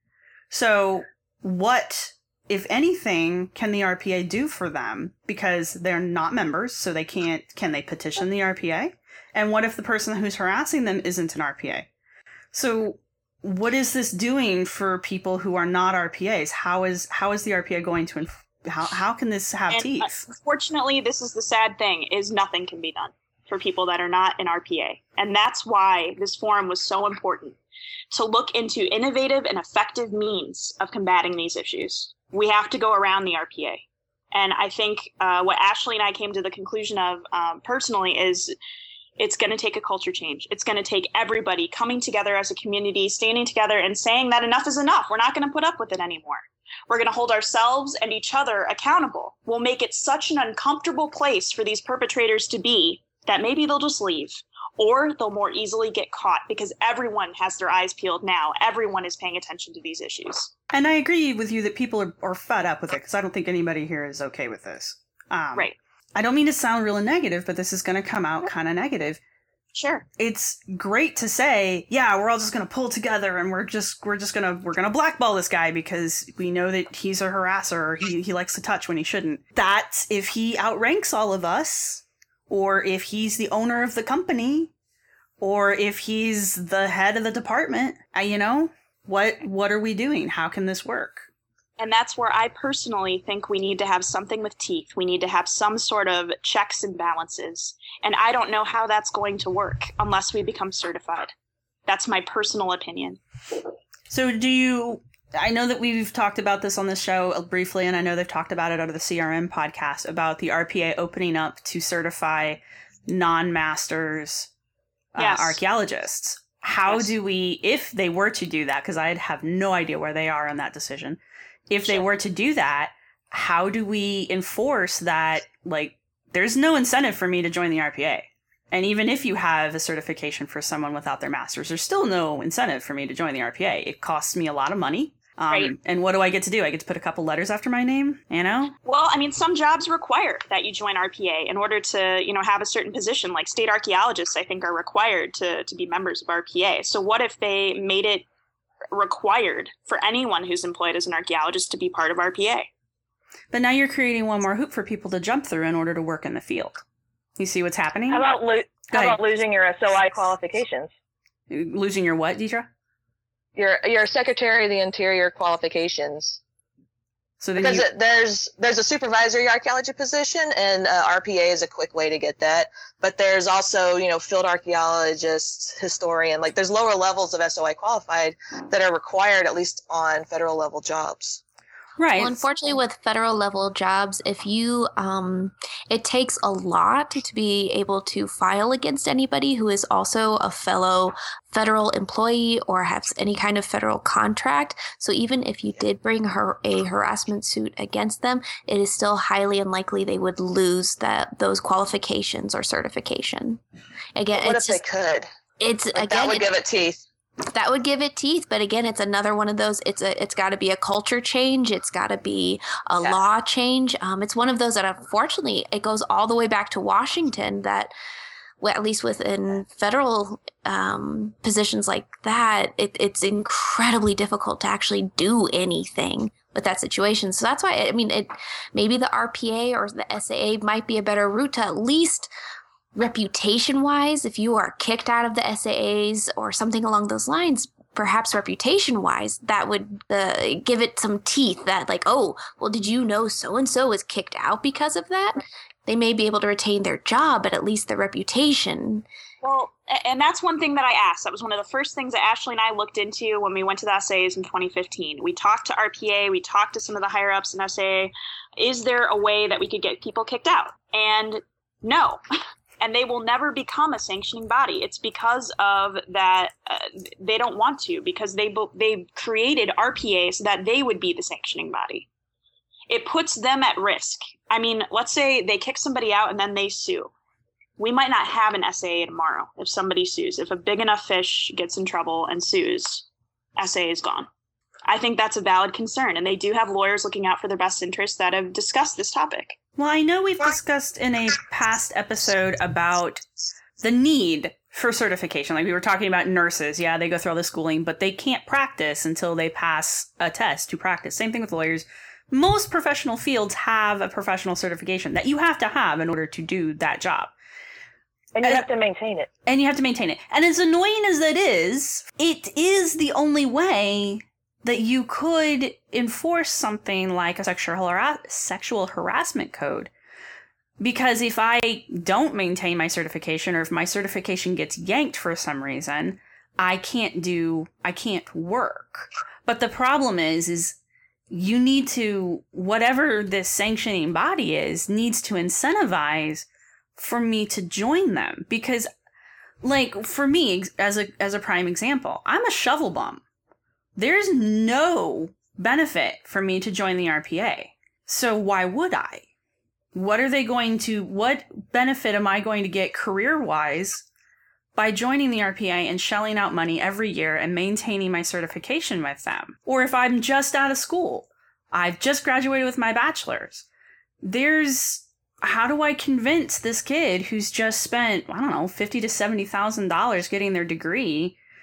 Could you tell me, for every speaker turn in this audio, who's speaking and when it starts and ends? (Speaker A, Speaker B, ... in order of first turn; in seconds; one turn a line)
Speaker A: 0.5-11.9
Speaker A: 12.5-20.2
Speaker B: 19.7-27.6
Speaker B: 28.1-38.5
Speaker B: 39.2-60.5
Speaker A: 60.7-69.2
Speaker B: 69.7-70.0
Speaker A: 70.2-84.7
Speaker A: 85.4-91.3
Speaker B: 91.8-101.3
Speaker B: 101.8-103.2
Speaker A: 104.1-114.5
Speaker A: 115.1-138.7
Speaker B: 115.2-115.6
Speaker B: 116.8-117.1
Speaker B: 138.8-148.2
Speaker B: 148.9-152.7
Speaker A: 153.5-156.8
Speaker A: 157.4-158.3
Speaker C: 158.1-160.9
Speaker A: 158.9-159.2
Speaker A: 161.5-162.7
Speaker C: 163.6-166.4
Speaker A: 167.4-167.8
Speaker C: 167.6-181.4
Speaker A: 182.0-182.4
Speaker D: 182.2-203.6
Speaker D: 204.2-204.8
Speaker C: 204.3-205.3
Speaker D: 205.6-206.5
Speaker C: 205.9-207.0
Speaker D: 207.5-217.9
Speaker D: 218.6-232.3
Speaker D: 232.9-249.1
Speaker B: 249.4-262.2
Speaker B: 262.8-272.1
Speaker B: 272.9-277.1
Speaker B: 277.8-283.1
Speaker B: 283.6-284.3
Speaker B: 284.9-289.6
Speaker A: 289.8-293.2
Speaker A: 293.8-307.3
Speaker C: 308.4-309.3
Speaker A: 309.4-319.9
Speaker A: 320.8-330.8
Speaker A: 331.3-338.9
Speaker A: 339.6-343.2
Speaker A: 343.9-349.2
Speaker A: 349.9-354.0
Speaker A: 354.7-363.6
Speaker A: 364.2-371.4